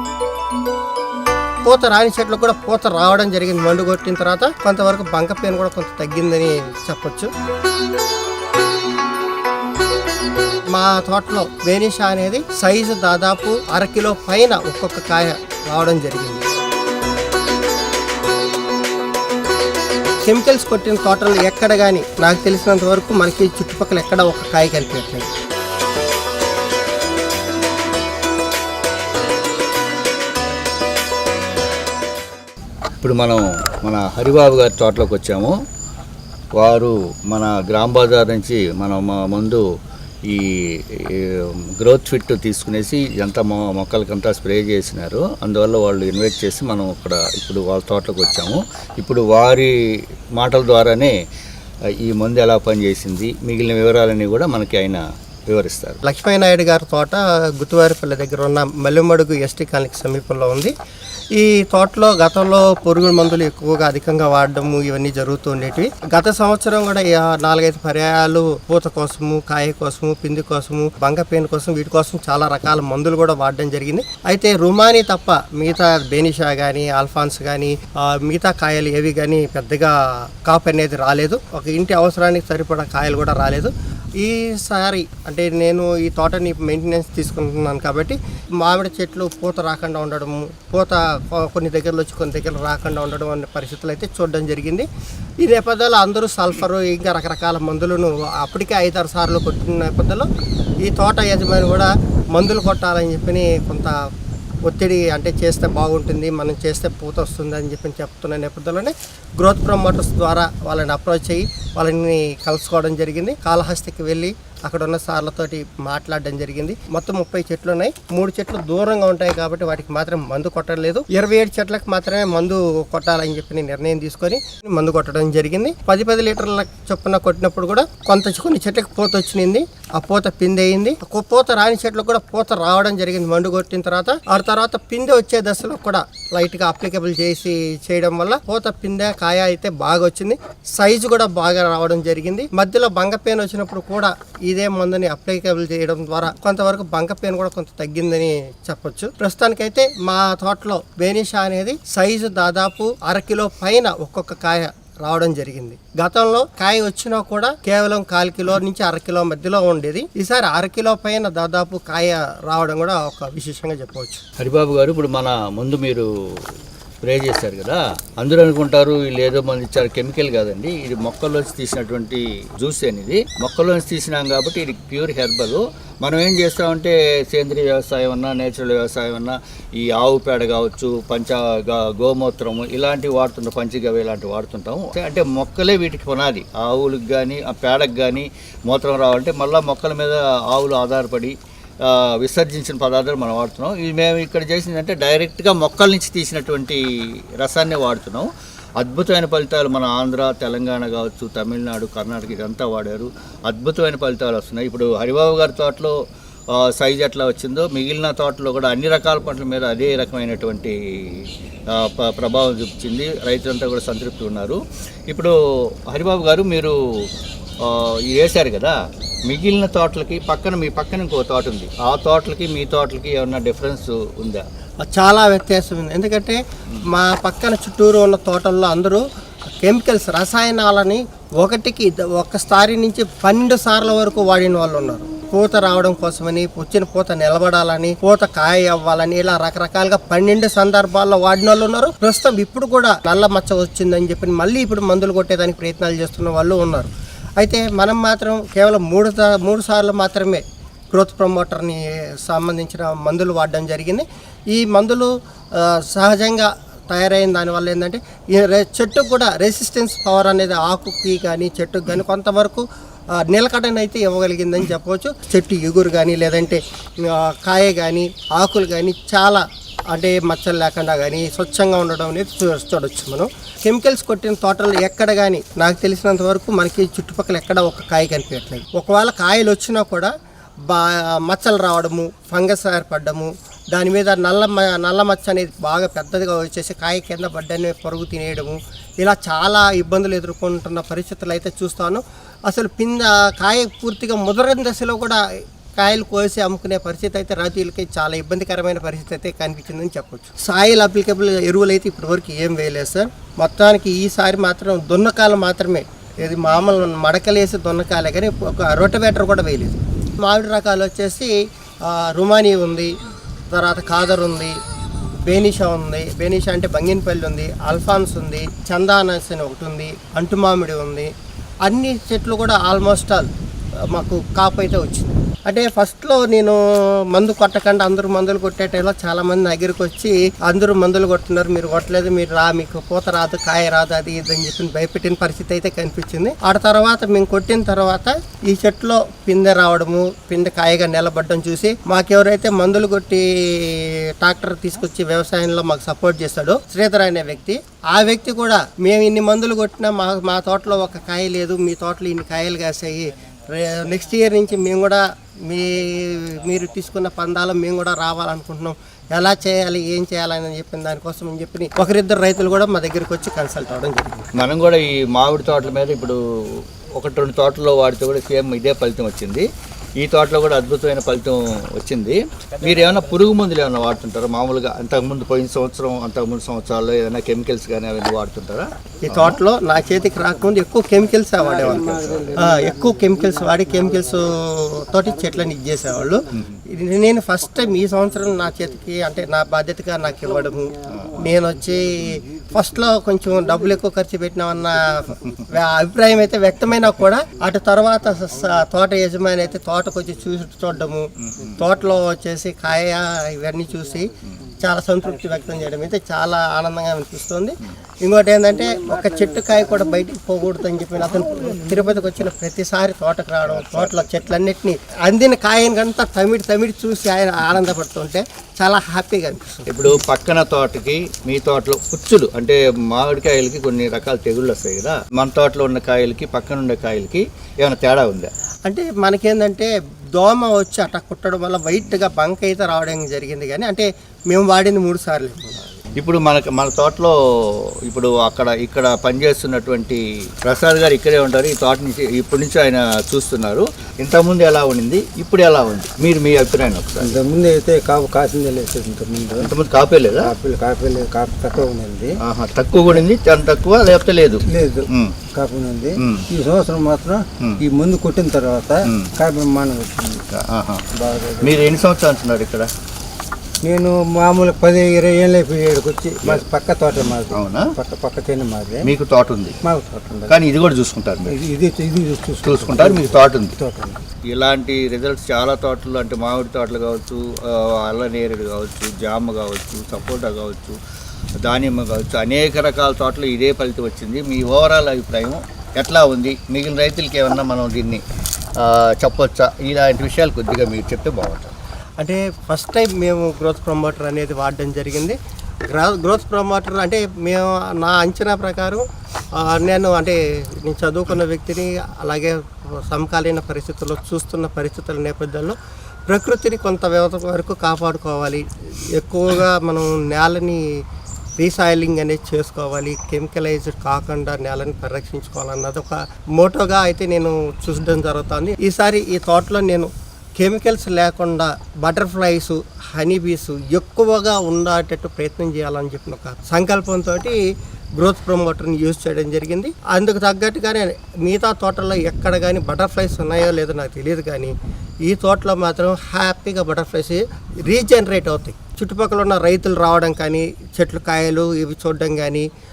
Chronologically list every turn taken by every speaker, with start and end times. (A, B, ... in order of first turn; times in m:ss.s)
0:01.6-0:07.3 A
0:10.7-0:16.5 A
0:20.2-0:25.3 A
0:33.0-0:35.5 B
0:36.6-0:39.6 B
0:41.1-0:49.7 B
0:50.4-0:51.1 B
0:52.0-0:56.0 B
0:56.0-1:00.7 A
1:01.4-1:19.9 A
1:20.4-1:34.9 A
1:35.4-1:40.3 A
1:40.8-1:43.9 A
1:44.6-2:44.2 A
2:44.4-2:46.5 B
2:47.0-3:16.8 B
3:17.4-3:25.9 B
3:26.6-3:35.3 B
3:35.9-3:36.7 B
3:37.6-3:38.7 B
3:39.3-3:44.4 B
3:44.8-3:49.0 A
3:49.6-4:22.6 A
4:23.2-4:40.1 A
4:40.7-4:55.2 A
4:55.8-5:11.3 A
5:11.9-5:12.9 A
5:13.5-5:14.5 A
5:15.2-5:21.1 A
5:21.6-5:23.3 A
5:23.9-5:26.6 A
5:27.1-6:04.3 A
6:04.4-6:09.5 B
6:10.0-6:19.4 B
6:19.0-6:59.7 A
6:21.4-6:24.1 C
6:21.7-6:22.3 B
6:30.9-6:31.2 B
6:48.7-6:49.9 C
6:51.3-6:51.8 C
6:53.5-6:54.1 B
6:59.7-7:08.3 B
7:08.6-7:15.6 A
7:16.0-7:17.1 B
7:17.9-7:27.2 B
7:27.0-7:29.5 C
7:29.4-7:30.3 B
7:30.2-7:32.2 C
7:32.2-7:35.1 B
7:34.5-7:40.2 C
7:36.0-7:36.2 B
7:38.8-7:39.1 B
7:40.3-7:40.8 B
7:40.9-7:41.6 C
7:41.4-7:42.7 B
7:43.6-7:48.9 C
7:47.0-7:47.6 B
7:48.8-7:49.6 B
7:49.6-7:50.4 C
7:50.3-7:51.3 B
7:51.3-7:54.0 C
7:52.4-7:53.5 B
7:54.3-8:00.8 B
8:01.4-8:08.0 B
8:08.6-8:11.5 B
8:12.0-8:15.2 A
8:15.7-8:18.8 A
8:19.4-8:22.4 A
8:22.9-8:25.6 A
8:26.1-8:30.6 A
8:31.4-8:47.4 A
8:48.0-8:54.5 A
8:55.1-9:02.5 A